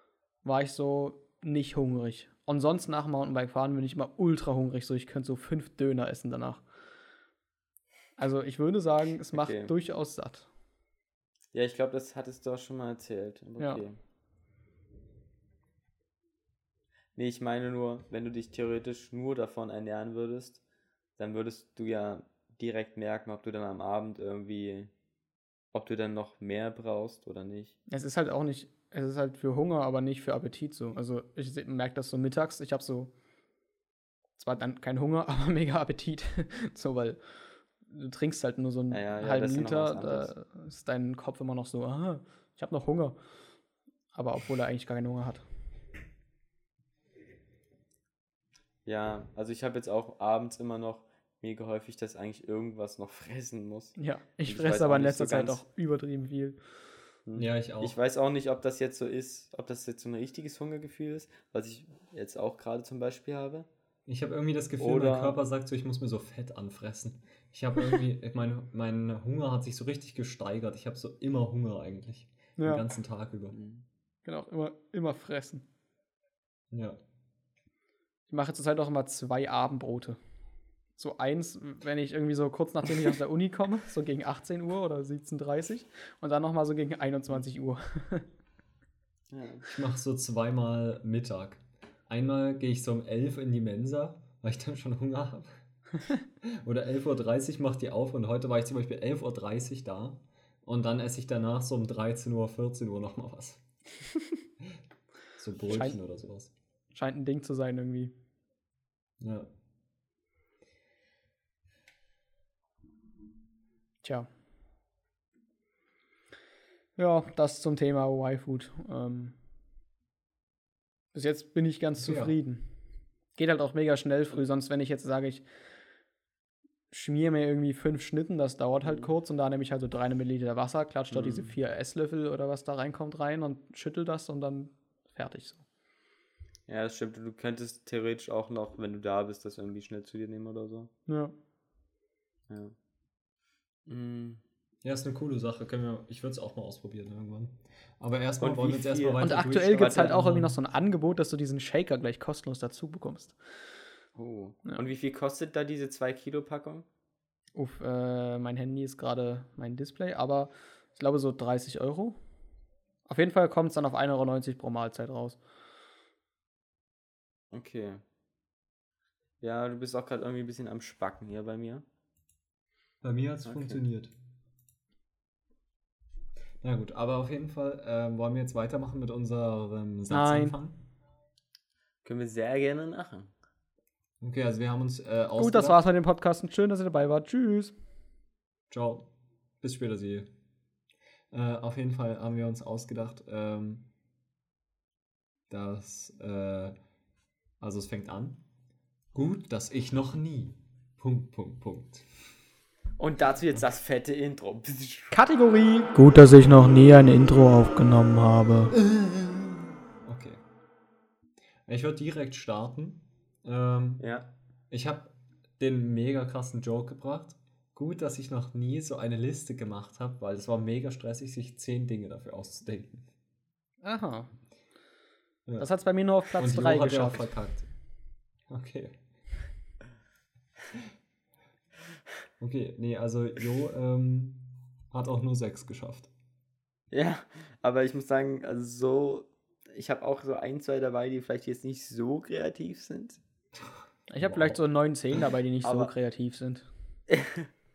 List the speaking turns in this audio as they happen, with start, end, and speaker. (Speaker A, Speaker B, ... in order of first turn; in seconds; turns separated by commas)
Speaker A: 0.4-6.6, Speaker A: 8.2-10.5, Speaker B: 9.3-9.7, Speaker B: 11.5-14.0, Speaker B: 17.1-20.6, Speaker B: 21.2-24.9, Speaker B: 25.7-27.8, Speaker A: 27.9-33.1, Speaker A: 34.4-37.2, Speaker A: 37.8-43.2, Speaker B: 38.9-40.3, Speaker A: 44.1-45.4, Speaker B: 48.8-55.6, Speaker A: 54.0-56.6, Speaker B: 57.2-63.7, Speaker C: 57.4-58.0, Speaker C: 64.1-73.5, Speaker B: 64.8-65.4, Speaker A: 72.6-72.8, Speaker B: 73.5-73.8, Speaker A: 74.2-75.6, Speaker C: 76.7-77.0, Speaker A: 78.3-80.2, Speaker A: 81.0-88.3, Speaker B: 89.3-89.6, Speaker C: 89.7-95.5, Speaker C: 96.4-103.6, Speaker C: 105.4-106.5, Speaker A: 105.7-106.0, Speaker A: 106.9-108.1, Speaker C: 109.2-109.5, Speaker A: 114.0-114.3, Speaker A: 117.0-119.3, Speaker A: 121.1-122.6, Speaker C: 122.0-122.3, Speaker A: 123.3-125.4, Speaker A: 126.9-135.6, Speaker B: 128.8-129.1, Speaker B: 131.1-131.5, Speaker B: 136.7-140.9, Speaker A: 141.1-141.3, Speaker B: 142.5-142.7, Speaker B: 143.8-144.4, Speaker C: 144.8-150.6, Speaker B: 148.4-150.1, Speaker A: 149.2-153.4, Speaker B: 154.2-156.8, Speaker A: 157.6-162.2, Speaker A: 163.1-165.4, Speaker B: 167.5-168.0, Speaker B: 169.4-171.8, Speaker C: 173.0-174.1, Speaker B: 173.4-173.8, Speaker C: 176.6-180.8, Speaker A: 180.1-180.6, Speaker B: 182.0-183.3, Speaker C: 184.2-185.8, Speaker A: 185.4-187.7, Speaker C: 188.7-189.1, Speaker C: 189.6-190.3, Speaker C: 191.3-193.9, Speaker C: 195.5-196.8, Speaker C: 197.6-198.4, Speaker C: 199.1-202.1, Speaker B: 203.0-205.1, Speaker A: 205.1-208.7, Speaker C: 208.9-209.4, Speaker C: 210.0-210.4, Speaker C: 211.7-214.1, Speaker B: 214.0-214.2, Speaker C: 214.7-223.1, Speaker A: 223.8-224.3, Speaker A: 225.6-227.2, Speaker C: 226.4-227.7, Speaker C: 228.5-228.9, Speaker C: 232.4-236.1, Speaker B: 236.9-243.2, Speaker C: 243.6-244.6, Speaker A: 244.1-246.7, Speaker B: 245.6-245.9, Speaker B: 247.1-247.5